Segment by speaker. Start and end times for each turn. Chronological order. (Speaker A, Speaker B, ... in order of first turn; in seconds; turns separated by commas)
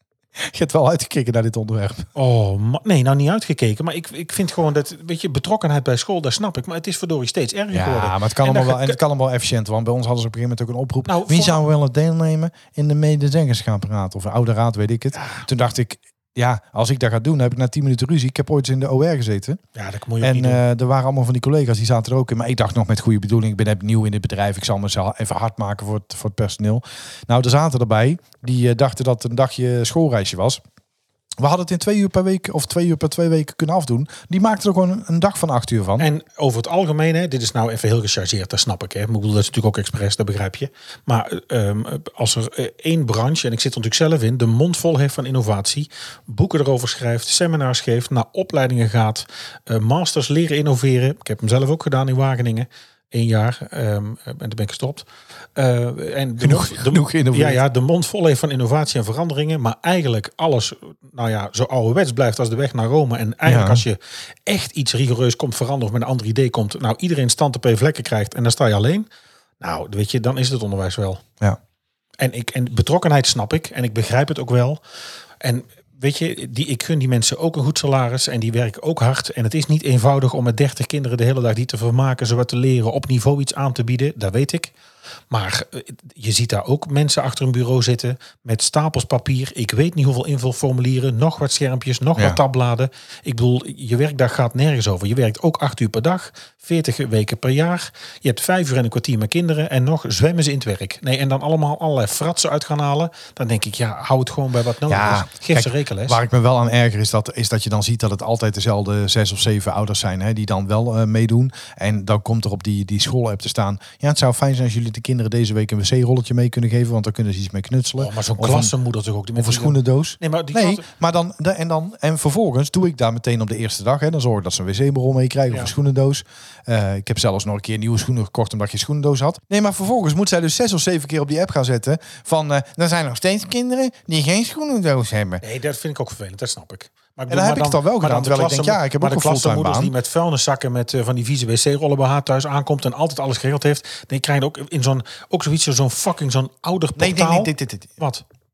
Speaker A: 0.4-2.1, Speaker B: 2.1-9.0, Speaker A: 7.7-19.6, Speaker B: 11.0-11.6, Speaker B: 15.1-15.5, Speaker B: 19.8-20.6, Speaker A: 20.2-30.6, Speaker A: 31.4-36.1, Speaker B: 36.0-69.1, Speaker A: 56.4-57.6, Speaker A: 63.4-63.8, Speaker B: 69.6-71.2, Speaker B: 72.2-74.8, Speaker B: 75.4-84.7, Speaker B: 85.3-106.2, Speaker A: 104.9-118.7, Speaker B: 118.0-120.9, Speaker A: 119.3-135.4, Speaker B: 135.4-148.2, Speaker A: 137.3-139.9, Speaker A: 147.0-148.0